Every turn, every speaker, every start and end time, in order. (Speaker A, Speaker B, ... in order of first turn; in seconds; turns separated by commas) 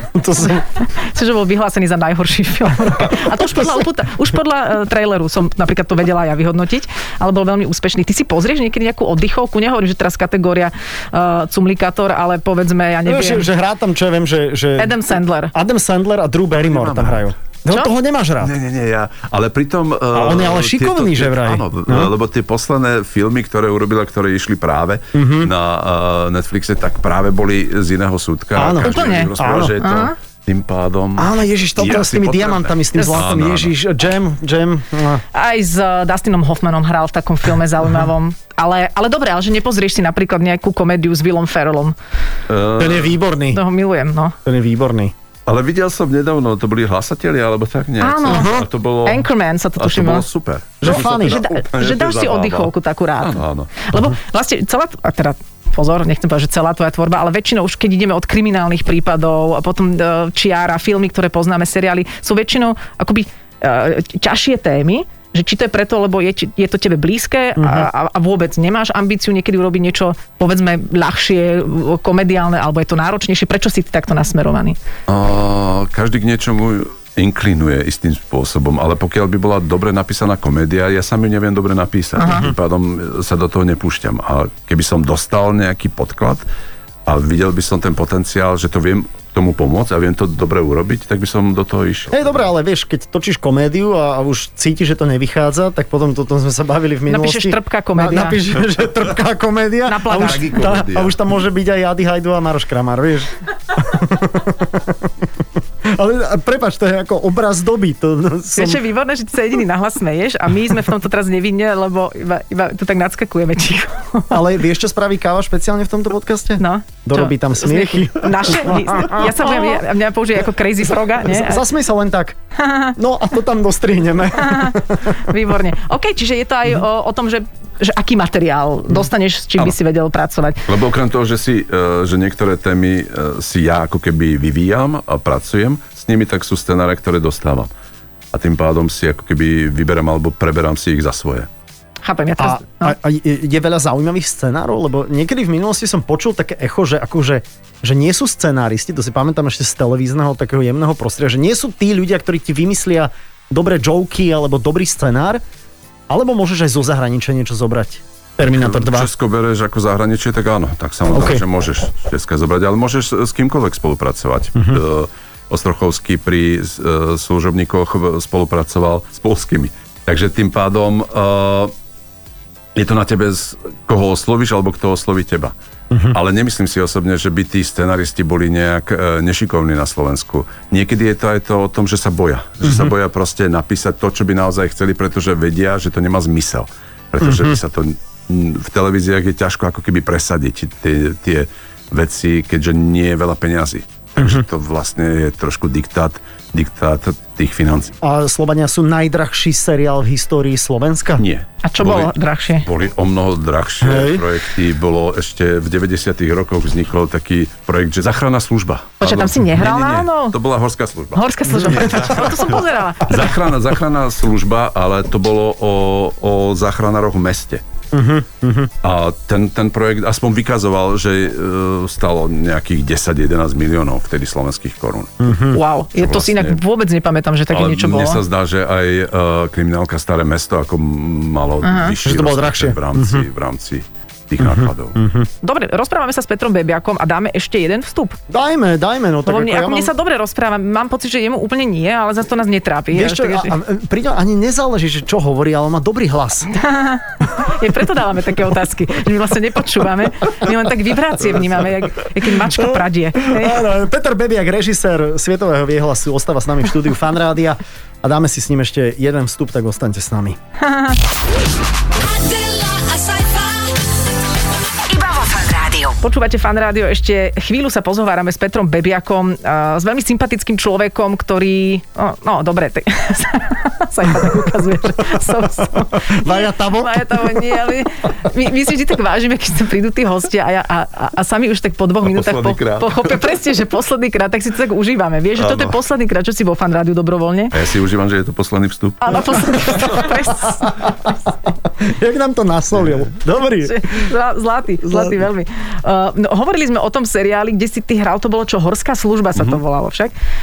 Speaker A: 0.1-0.7, Speaker B: 0.4-13.5, Speaker A: 3.4-3.8, Speaker A: 13.1-15.0, Speaker B: 14.8-15.5, Speaker A: 15.5-18.5, Speaker C: 16.6-17.3, Speaker C: 18.4-33.7, Speaker A: 20.1-22.1, Speaker A: 25.1-25.5, Speaker A: 28.6-29.8, Speaker B: 28.8-30.1, Speaker A: 31.2-35.2, Speaker B: 35.3-42.0, Speaker C: 42.5-43.2, Speaker A: 42.8-43.6, Speaker B: 43.5-44.4, Speaker A: 44.5-45.1, Speaker C: 45.5-53.7, Speaker B: 48.0-50.2, Speaker A: 48.2-48.7, Speaker A: 50.8-51.5, Speaker B: 50.8-74.8, Speaker A: 67.6-67.9, Speaker C: 75.1-86.5, Speaker B: 82.2-82.5, Speaker C: 87.1-92.4, Speaker A: 92.1-105.2, Speaker B: 97.1-98.4, Speaker B: 99.9-100.5, Speaker C: 100.1-101.2, Speaker A: 105.8-108.8, Speaker B: 108.5-114.4, Speaker A: 114.3-119.8, Speaker B: 116.6-121.7, Speaker A: 121.2-122.4, Speaker B: 122.6-123.0, Speaker A: 123.0-125.3, Speaker B: 124.3-130.7, Speaker C: 130.7-137.7, Speaker C: 138.3-141.5, Speaker B: 142.0-143.0, Speaker A: 142.4-155.4, Speaker A: 156.1-159.1, Speaker C: 158.4-171.7, Speaker A: 161.1-161.4, Speaker C: 172.8-175.5, Speaker C: 176.0-197.9, Speaker A: 198.0-201.2, Speaker C: 201.2-202.1, Speaker B: 201.6-202.7, Speaker C: 202.6-217.6, Speaker A: 203.8-204.2, Speaker B: 209.0-210.4, Speaker B: 211.2-213.4, Speaker A: 211.6-212.2, Speaker A: 217.9-218.7, Speaker C: 218.8-225.4, Speaker A: 225.2-225.6, Speaker B: 225.5-228.2, Speaker C: 225.9-226.6, Speaker C: 227.5-235.0, Speaker B: 231.6-231.9, Speaker A: 232.0-233.3, Speaker A: 234.4-235.3, Speaker B: 235.4-238.2, Speaker A: 238.3-239.9, Speaker B: 239.2-243.6, Speaker A: 242.9-246.5, Speaker B: 246.6-253.7, Speaker A: 252.5-260.4, Speaker B: 260.6-261.0, Speaker D: 261.9-266.0, Speaker B: 266.0-287.6, Speaker A: 275.6-277.6, Speaker C: 282.0-283.1, Speaker C: 285.4-285.8, Speaker C: 287.5-289.5, Speaker B: 289.0-290.9, Speaker A: 290.6-291.1, Speaker A: 291.8-294.1, Speaker B: 293.6-300.1, Speaker A: 294.9-295.2